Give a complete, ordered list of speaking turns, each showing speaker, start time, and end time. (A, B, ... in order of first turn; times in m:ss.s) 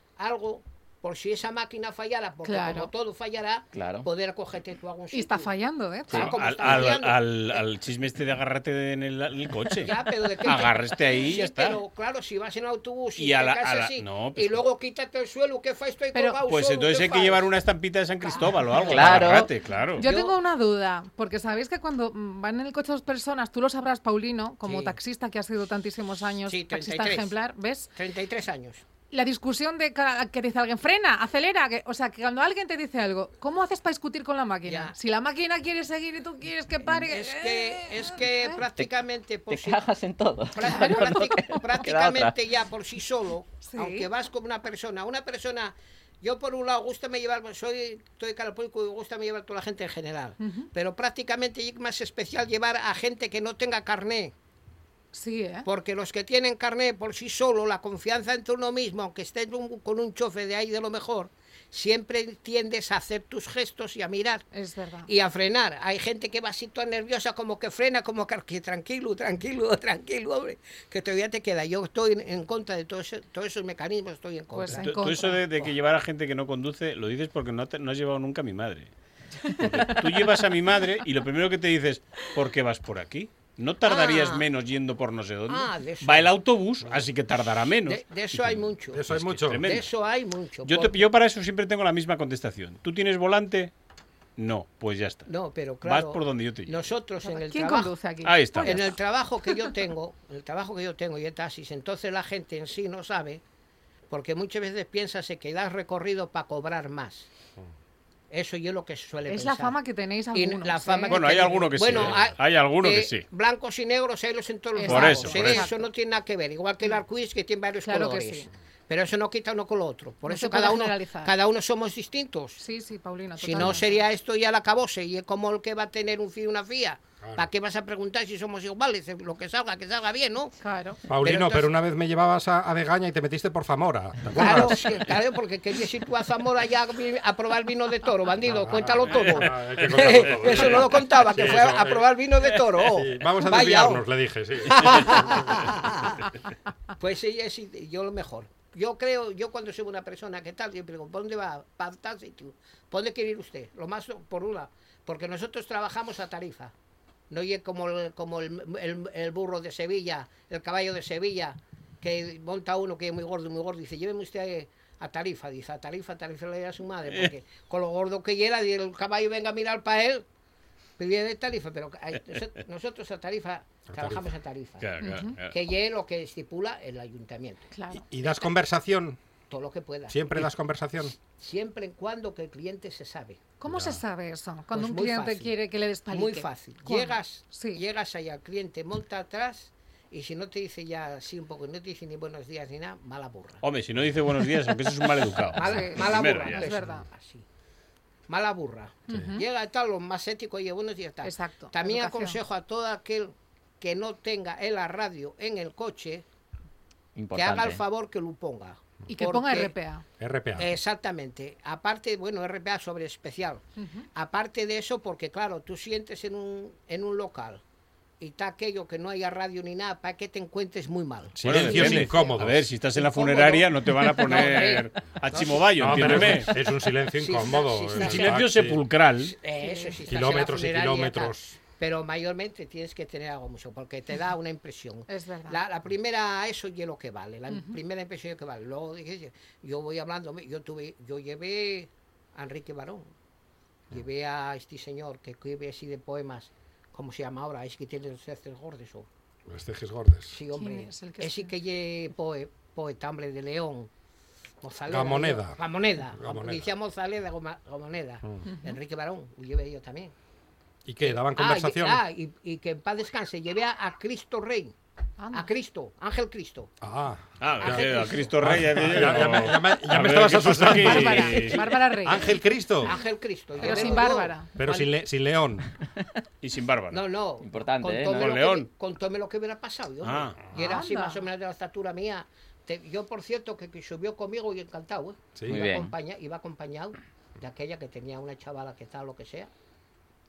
0:00.2-0:05.5 A
0:02.4-0:02.9 B
0:03.7-0:04.1 C
0:05.1-0:06.3 B
0:06.1-0:07.6 A
0:06.1-0:11.8 D
0:09.8-0:17.5 A
0:13.2-0:14.6 D
0:16.1-0:16.4 B
0:16.5-0:20.0 D
0:18.2-0:19.4 A
0:18.8-0:19.5 C
0:20.0-0:27.9 B
0:20.0-0:20.4 A
0:24.6-0:25.0 A
0:26.5-0:27.3 A
0:28.0-0:28.8 A
0:29.1-0:38.6 B
0:34.6-0:35.0 A
0:36.9-0:39.8 A
0:39.5-0:42.3 C
0:40.5-0:54.3 A
0:40.6-0:41.5 B
0:43.6-0:44.1 B
0:50.4-0:50.7 B
0:55.1-0:55.7 B
0:55.6-1:04.4 A
1:04.5-1:05.1 B
1:05.1-1:15.0 A
1:14.5-1:15.4 B
1:14.8-1:18.9 D
1:19.5-1:20.3 B
1:19.5-1:29.9 D
1:23.8-1:24.4 A
1:25.5-1:26.3 A
1:27.8-1:31.1 A
1:28.9-1:29.7 E
1:30.6-1:33.7 D
1:34.4-1:35.3 D
1:35.3-1:37.9 A
1:35.8-1:36.9 D
1:37.2-1:39.0 B
1:38.2-1:39.0 D
1:38.6-1:43.4 A
1:44.1-1:47.3 A
1:48.3-1:49.8 A
1:49.3-1:51.2 B
1:50.3-2:02.6 A
1:51.1-1:53.3 D
1:51.9-1:52.2 E
1:54.8-1:55.9 B
1:54.8-1:55.7 D
1:57.8-1:58.5 B
2:00.3-2:01.3 B
2:02.6-2:04.0 B
2:03.4-2:10.5 A
2:07.2-2:07.5 E
2:10.6-2:11.0 B
2:11.1-2:15.0 E
2:11.1-2:11.7 A
2:14.3-2:24.0 A
2:18.4-2:22.1 E
2:20.0-2:20.9 D
2:22.8-2:26.0 E
2:24.6-2:26.3 A
2:27.0-2:36.7 A
2:37.3-2:50.2 A
2:51.0-2:54.9 A
2:53.9-2:54.3 E
2:54.8-2:55.6 D
2:55.0-2:55.4 B
2:55.5-2:57.7 A
2:57.7-2:58.0 B
2:57.9-2:59.2 E
2:59.5-3:00.2 A
3:00.1-3:01.2 E
3:01.3-3:03.4 A
3:03.6-3:07.8 B
3:03.7-3:04.0 E
3:04.7-3:05.5 A
3:06.1-3:13.6 A
3:13.6-3:16.6 D
3:15.5-3:17.4 A
3:15.6-3:17.0 B
3:18.3-3:26.2 A
3:19.1-3:19.4 B
3:21.2-3:22.4 B
3:27.2-3:27.8 C
3:27.3-3:29.7 A
3:29.1-3:30.0 B
3:30.2-3:30.7 E
3:30.6-3:37.6 A
3:33.8-3:34.1 B
3:38.2-3:42.4 A
3:41.4-3:42.7 E
3:41.4-3:46.5 D
3:42.9-3:48.6 A
3:45.8-3:48.8 E
3:48.0-3:49.4 D
3:49.2-4:03.1 A
3:49.6-3:50.0 B
3:50.1-3:51.6 E
3:55.1-3:55.6 B
3:57.5-3:57.8 B
4:03.9-4:09.1 A
4:09.5-4:10.4 E
4:10.3-4:13.9 A
4:10.5-4:11.5 B
4:14.6-4:20.1 A
4:14.9-4:16.7 E
4:18.5-4:18.8 B
4:20.8-4:22.0 E
4:21.0-4:24.7 A
4:25.2-4:25.5 B
4:25.3-4:26.7 A
4:26.8-4:33.0 E
4:27.4-4:31.7 D
4:27.6-4:29.5 A
4:30.7-4:32.4 B
4:32.8-4:34.9 A
4:33.6-4:34.5 B
4:34.6-4:35.7 E
4:36.4-4:37.0 D
4:36.9-4:49.5 A
4:37.4-4:38.3 C
4:38.0-4:38.7 D
4:40.0-4:40.4 D
4:40.5-4:41.2 B
4:45.4-4:45.7 E
4:45.5-4:45.9 C